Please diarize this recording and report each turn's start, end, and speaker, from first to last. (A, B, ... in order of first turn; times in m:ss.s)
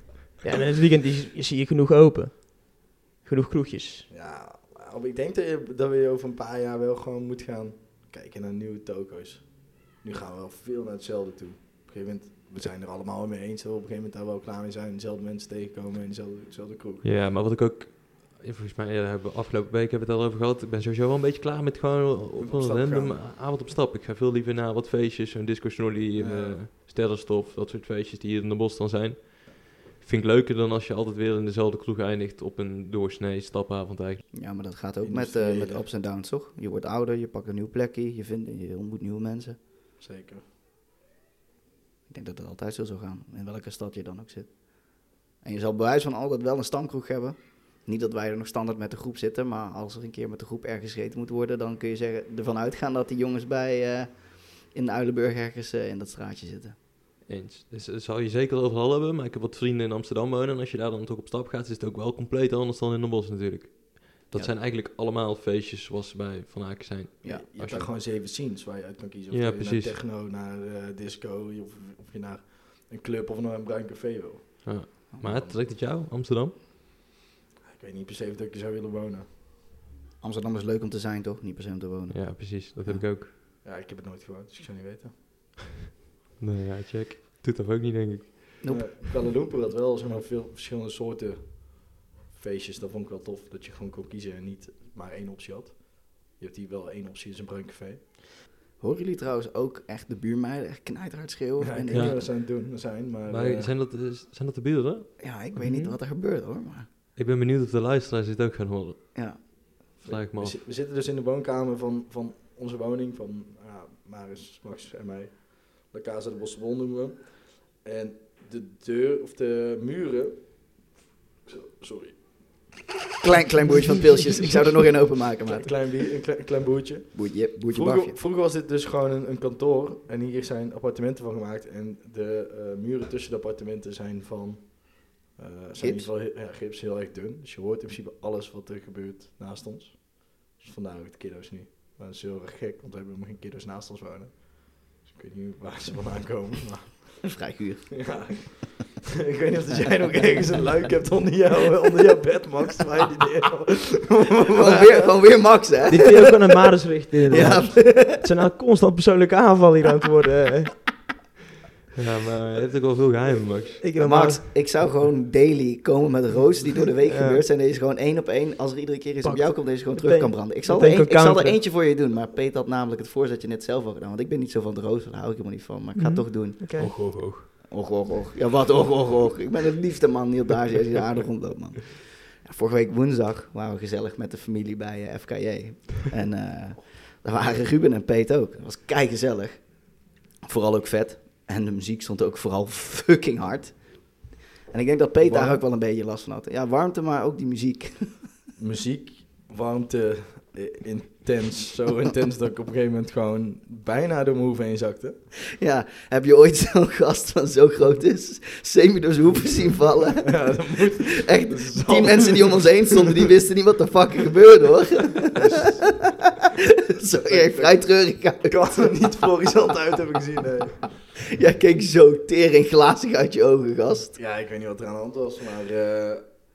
0:00.4-0:04.1 A
0:04.1-0:17.0 B
0:17.0-0:34.3 C
0:22.4-0:23.2 B
0:26.2-0:26.6 B
0:34.3-0:39.6 D
0:35.0-0:35.8 B
0:40.0-0:40.4 B
0:42.1-0:56.8 D
0:57.3-1:07.9 C
1:07.2-1:15.6 B
1:09.3-1:10.0 C
1:14.6-1:16.5 C
1:17.7-1:19.3 B
1:20.2-1:23.1 D
1:22.1-1:23.3 C
1:23.6-1:25.5 B
1:26.4-1:28.6 C
1:28.6-1:28.9 D
1:28.7-1:38.1 B
1:38.8-1:42.3 D
1:41.6-1:43.7 B
1:41.9-1:42.2 C
1:43.3-1:45.1 C
1:45.2-1:46.9 D
1:45.6-1:46.0 A
1:47.2-1:50.6 C
1:49.1-1:49.7 D
1:50.0-2:02.7 B
2:03.2-2:05.7 D
2:05.5-2:27.4 B
2:07.1-2:08.2 D
2:15.8-2:16.1 D
2:27.2-2:28.1 D
2:28.0-2:35.2 B
2:29.7-2:30.2 D
2:34.5-2:36.3 D
2:35.9-2:40.8 A
2:37.3-2:38.2 D
2:37.3-2:37.6 B
2:42.0-2:43.8 C
2:43.8-2:44.4 A
2:44.0-2:56.7 D
2:47.1-2:47.4 A
2:49.2-2:51.6 A
2:56.0-2:57.0 A
2:56.8-2:57.5 C
2:57.6-3:18.2 D
3:15.2-3:15.6 B
3:18.6-3:25.2 B
3:25.6-3:36.1 D
3:30.2-3:33.1 B
3:35.4-3:36.0 B
3:36.9-3:38.9 D
3:37.1-3:41.0 B
3:41.2-3:44.2 D
3:44.2-3:46.2 B